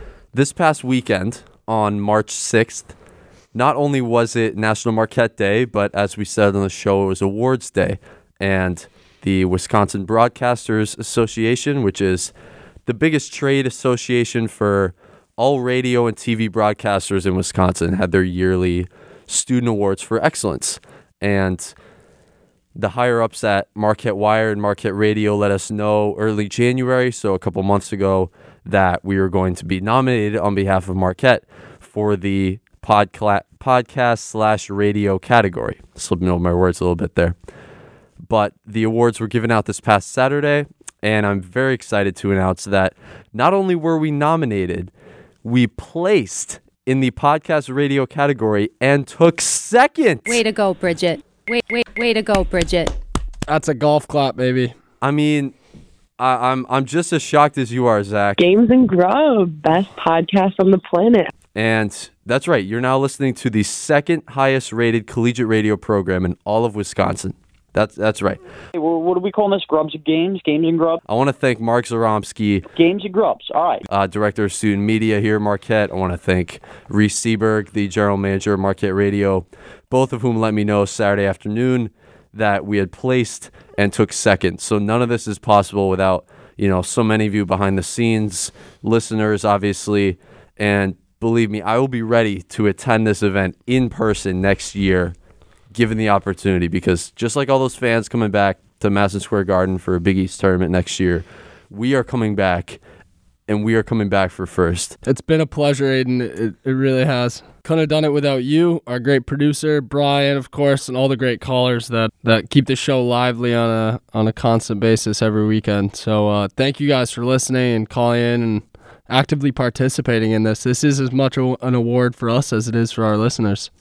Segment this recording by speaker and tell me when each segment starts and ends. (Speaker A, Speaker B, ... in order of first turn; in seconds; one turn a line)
Speaker A: 0.3-2.9
Speaker A: 3.5-12.3
Speaker A: 12.8-21.7
Speaker A: 22.8-37.3
Speaker A: 38.3-44.9
Speaker A: 45.4-50.4
Speaker B: 50.2-52.9
Speaker C: 53.5-54.8
Speaker A: 55.0-55.5
Speaker A: 56.2-58.4
Speaker D: 58.4-61.2
Speaker A: 61.5-68.4
Speaker E: 68.8-71.0
Speaker A: 71.1-72.7
Speaker E: 72.7-73.8
Speaker A: 73.9-95.1
Speaker A: 95.7-102.8
Speaker A: 103.5-105.0
Speaker C: 105.0-123.7